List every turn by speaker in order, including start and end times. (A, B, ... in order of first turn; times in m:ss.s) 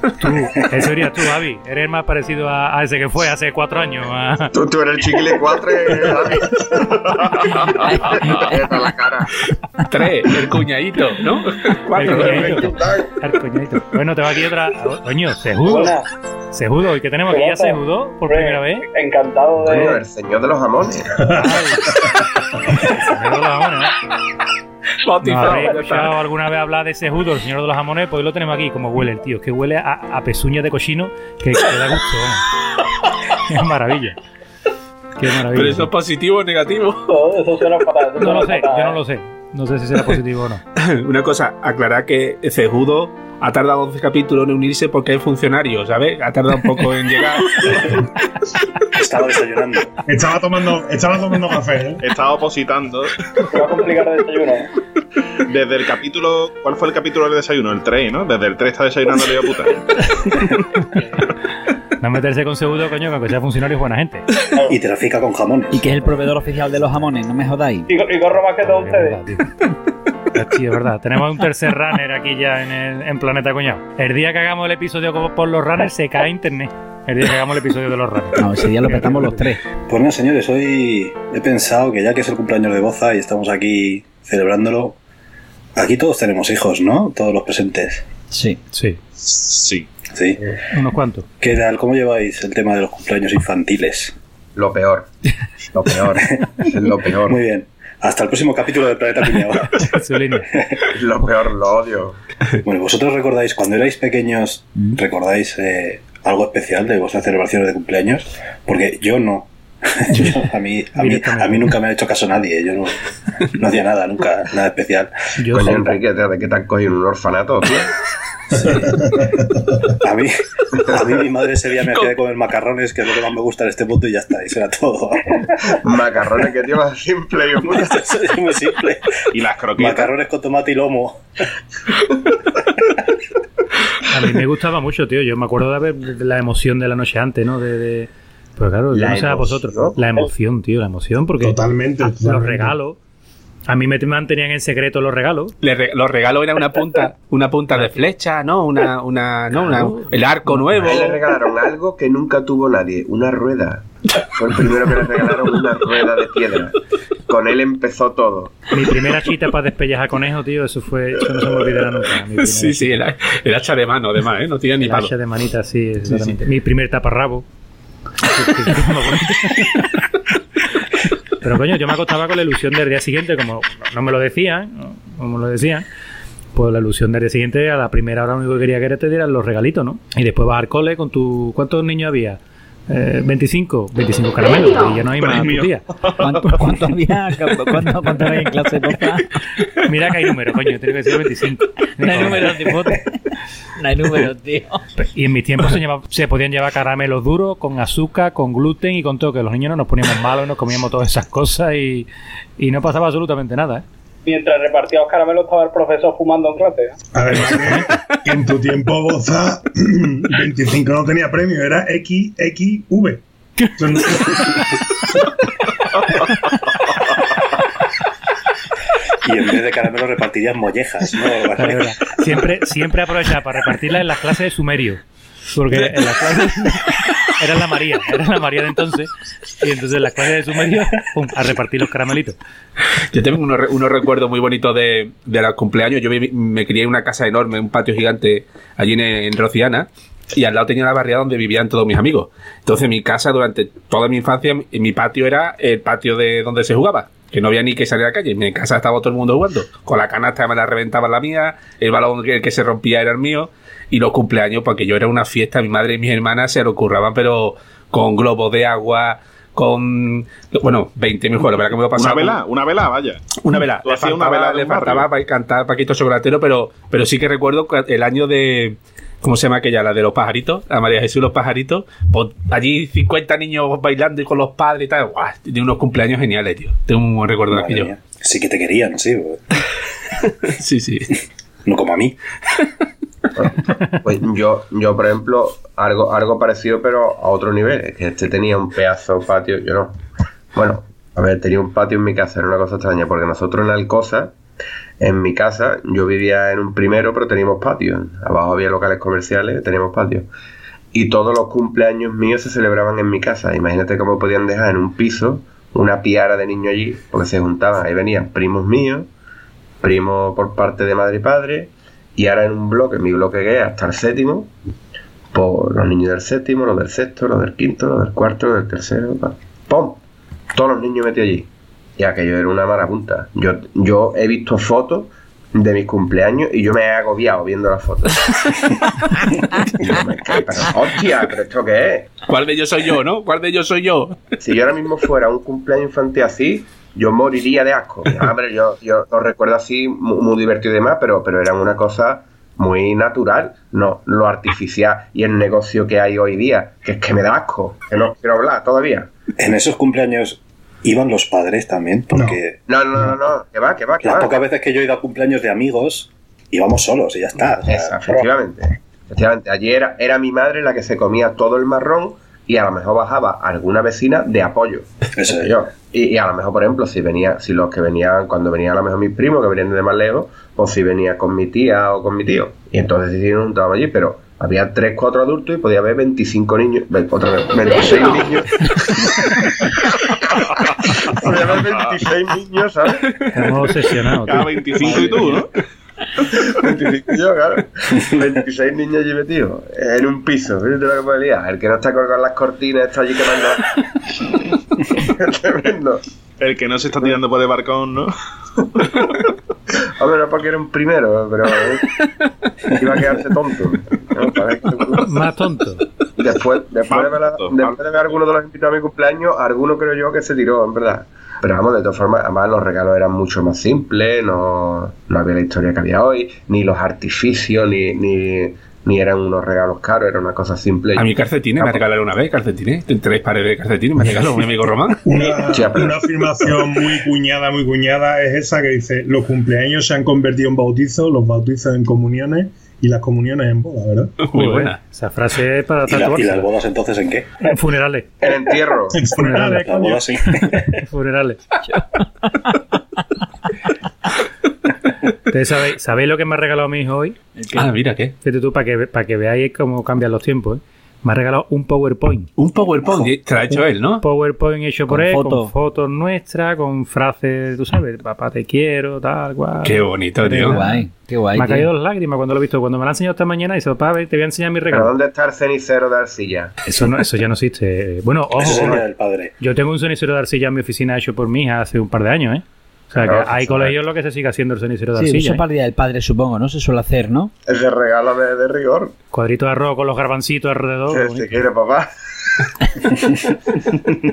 0:00.2-0:04.5 A
0:04.5-0:09.3 B
0:07.7-0:08.8 C
0:09.8-0:12.7 D
0:12.0-0:16.0 A
0:12.0-0:13.1 B
0:15.6-0:16.1 E
0:16.5-0:18.9 A
0:17.3-0:20.0 E
0:19.6-0:21.2 B
0:21.2-0:22.1 F
0:21.3-0:22.0 A
0:22.9-0:24.0 A
0:25.0-0:26.2 D
0:25.2-0:32.5 A
0:25.4-0:26.0 E
0:33.4-0:34.2 A
0:35.2-0:35.9 A
0:35.5-0:37.1 D
0:37.1-0:39.0 E
0:38.2-0:40.6 A
0:40.8-0:48.0 D
0:48.9-0:50.0 G
0:50.0-0:52.0 F
0:52.0-0:53.2 H
0:53.5-0:54.7 E
0:55.4-1:00.4 H
1:02.0-1:04.3 A
1:04.5-1:04.8 E
1:04.7-1:05.9 G
1:05.7-1:07.9 C
1:07.9-1:09.3 E
1:08.6-1:09.5 A
1:10.3-1:19.5 A
1:18.4-1:19.6 C
1:19.8-1:25.0 G
1:25.8-1:28.1 G
1:28.3-1:28.6 C
1:28.7-1:29.0 A
1:29.3-1:29.9 H
1:30.1-1:30.4 G
1:30.7-1:31.3 A
1:31.4-1:34.2 G
1:34.6-1:35.1 B
1:35.7-1:37.4 B
1:37.2-1:40.0 G
1:39.8-1:40.5 A
1:40.9-1:42.2 B
1:42.6-1:55.1 G
1:50.1-1:50.4 A
1:51.0-1:51.8 A
1:55.4-1:56.0 A
1:55.5-1:57.9 B
1:58.6-1:58.9 G
1:58.7-1:59.7 F
2:00.0-2:05.8 G
2:05.8-2:08.1 B
2:07.6-2:09.1 G
2:09.3-2:10.1 H
2:09.8-2:11.2 G
2:14.1-2:23.0 A
2:18.9-2:20.0 B
2:21.4-2:22.8 F
2:23.7-2:25.6 A
2:25.6-2:31.2 D
2:29.7-2:31.1 A
2:30.8-2:36.8 B
2:37.3-2:38.8 B
2:38.7-2:42.9 A
2:42.4-2:45.1 D
2:44.8-2:47.4 A
2:48.2-2:50.0 A
2:51.4-2:55.9 A
2:56.5-3:05.9 A
3:05.2-3:06.4 H
3:06.2-3:09.3 C
3:08.1-3:08.9 A
3:09.9-3:13.0 A
3:12.0-3:13.1 C
3:13.8-3:14.8 C
3:15.0-3:23.8 A
3:24.2-3:27.0 E
3:27.1-3:33.2 F
3:33.8-3:34.6 F
3:39.2-3:42.2 G
3:41.6-3:52.4 A
3:53.0-4:22.4 D
4:22.0-4:25.1 H
4:23.4-4:37.9 D
4:37.5-4:39.6 G
4:40.5-4:41.1 D
4:41.6-4:42.2 G
4:43.4-4:50.0 B
4:50.5-4:54.3 B
4:55.0-5:00.3 B
5:00.9-5:09.1 B
5:09.8-5:14.5 B
5:15.3-5:20.0 B
5:20.5-5:28.4 B
5:29.6-5:32.1 B
5:32.3-5:34.3 D
5:34.4-5:49.1 B
5:49.4-5:52.6 G
5:52.1-5:52.4 F
5:52.7-5:54.4 B
5:54.0-5:58.0 G
5:57.7-6:23.1 B
6:05.2-6:05.5 G
6:20.5-6:21.9 H
6:23.3-6:25.2 A
6:24.3-6:25.5 H
6:26.3-6:33.8 B
6:35.0-6:36.0 B
6:36.4-6:38.1 H
6:40.0-6:42.0 B
6:42.8-6:45.1 B
6:45.0-6:45.9 A
6:46.2-7:01.8 B
6:46.9-6:48.1 H
7:01.0-7:05.0 D
7:05.0-7:14.2 F
7:05.3-7:06.5 B
7:14.2-7:14.8 D
7:14.3-7:16.5 A
7:15.9-7:17.3 G
7:17.4-7:18.1 A
7:18.2-7:19.1 B
7:18.9-7:19.9 F
7:19.1-7:20.0 A
7:19.5-7:20.8 G
7:20.8-7:21.4 A
7:25.3-7:27.2 A
7:27.4-7:27.7 C
7:27.5-7:28.1 D
7:28.2-7:32.3 A
7:32.4-7:34.0 D
7:34.0-7:44.9 A
7:34.9-7:35.5 C
7:39.6-7:40.6 D
7:40.3-7:41.7 C
7:44.7-7:46.6 B
7:46.7-7:48.9 A
7:48.4-7:49.3 G
7:48.5-7:48.8 B
7:49.4-7:55.4 A
7:53.0-7:53.8 B
7:55.0-7:57.3 C
7:57.5-7:59.0 B
7:59.1-8:01.4 A
8:00.9-8:01.9 B
8:03.0-8:03.4 G